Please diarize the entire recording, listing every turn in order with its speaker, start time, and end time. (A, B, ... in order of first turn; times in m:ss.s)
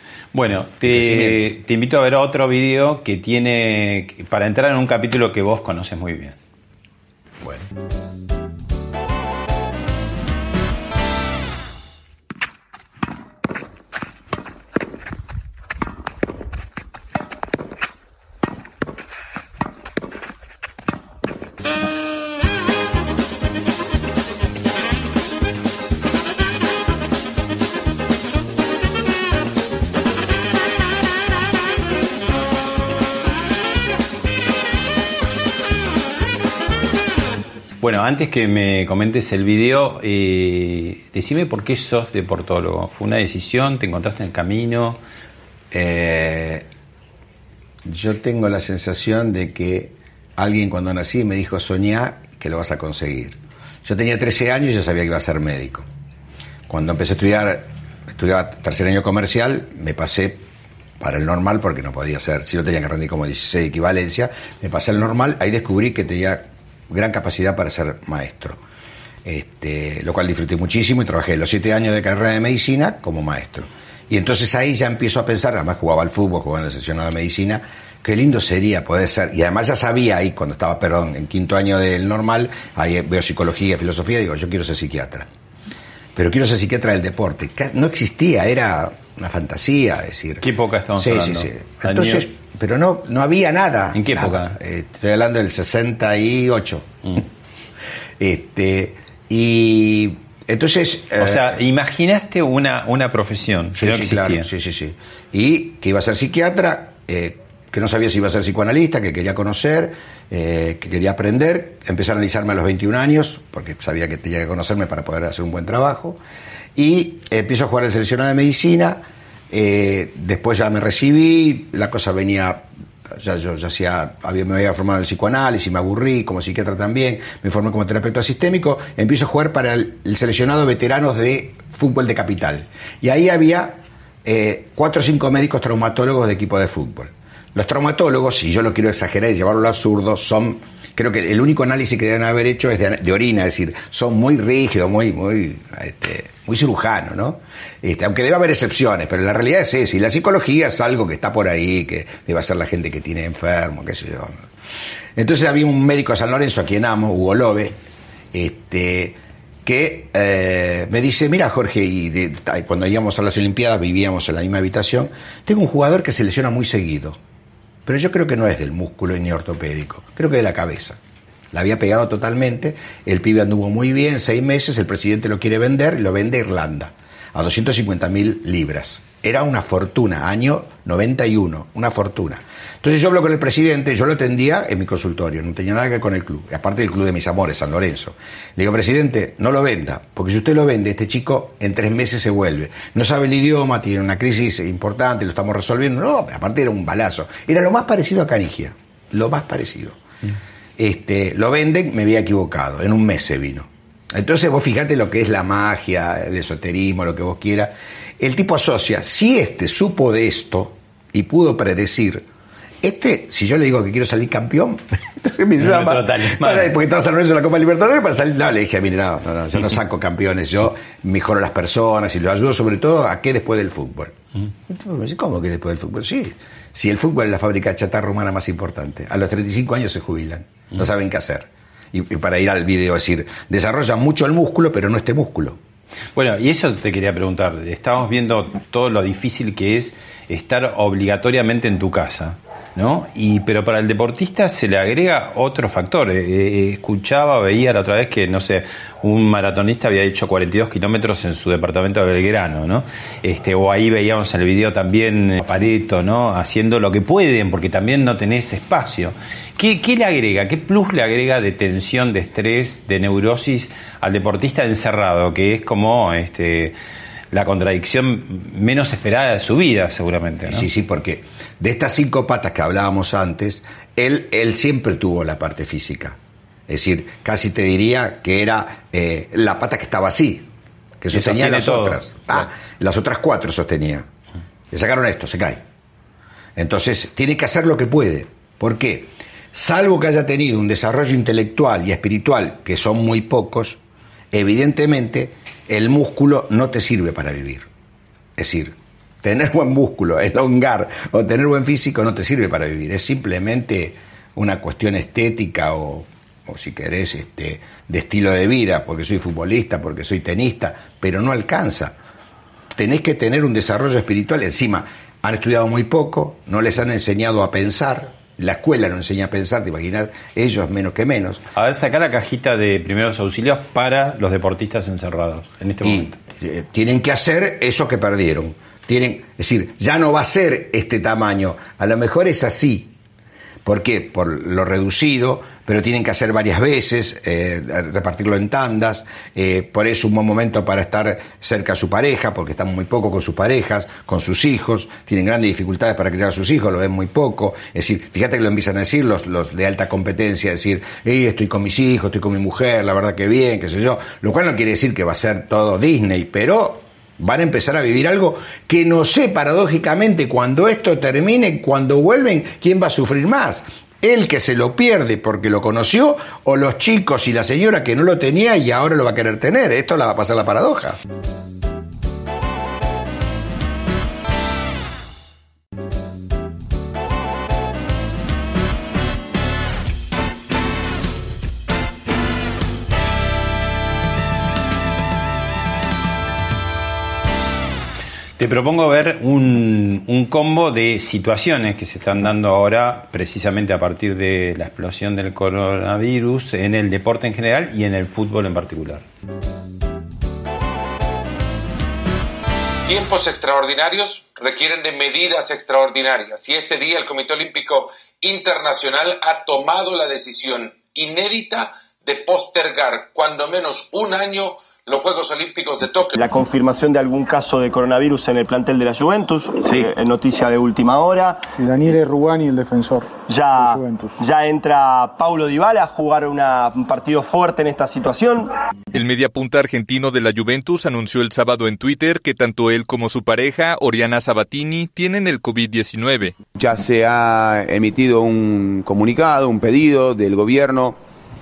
0:00.3-0:06.4 A
0:00.8-0:01.4 B
0:37.8-0:45.0 A
0:45.7-0:46.6 B
0:47.8-0:55.9 B
0:56.7-1:00.4 B
1:01.0-1:08.6 B
1:09.2-1:25.3 B
1:26.1-1:30.4 B
1:30.4-1:32.3 A
1:31.0-1:37.2 B
1:33.9-1:34.6 A
1:38.2-1:41.6 B
1:41.2-1:44.5 A
1:43.7-1:56.2 B
1:56.8-2:34.4 B
2:35.2-2:37.8 B
2:38.3-2:47.2 B
2:47.8-2:51.0 B
2:51.5-3:20.0 B
3:20.8-3:32.2 B
3:32.8-3:44.2 B
3:35.6-3:36.7 A
3:44.7-3:55.6 B
3:56.1-4:26.7 A
4:27.3-4:30.7 A
4:30.5-4:40.5 B
4:41.0-4:44.1 B
4:41.1-4:42.4 A
4:44.7-4:45.6 B
4:46.6-4:53.8 B
4:54.3-4:57.7 B
4:58.4-5:11.9 B
5:12.7-5:21.4 B
5:21.5-5:26.2 A
5:25.8-5:32.9 B
5:33.6-6:11.0 B
6:28.4-6:39.0 A
6:42.8-6:56.2 C
6:56.1-7:01.5 D
7:01.6-7:04.1 E
7:03.3-7:08.5 D
7:08.9-7:16.3 F
7:16.5-7:21.0 G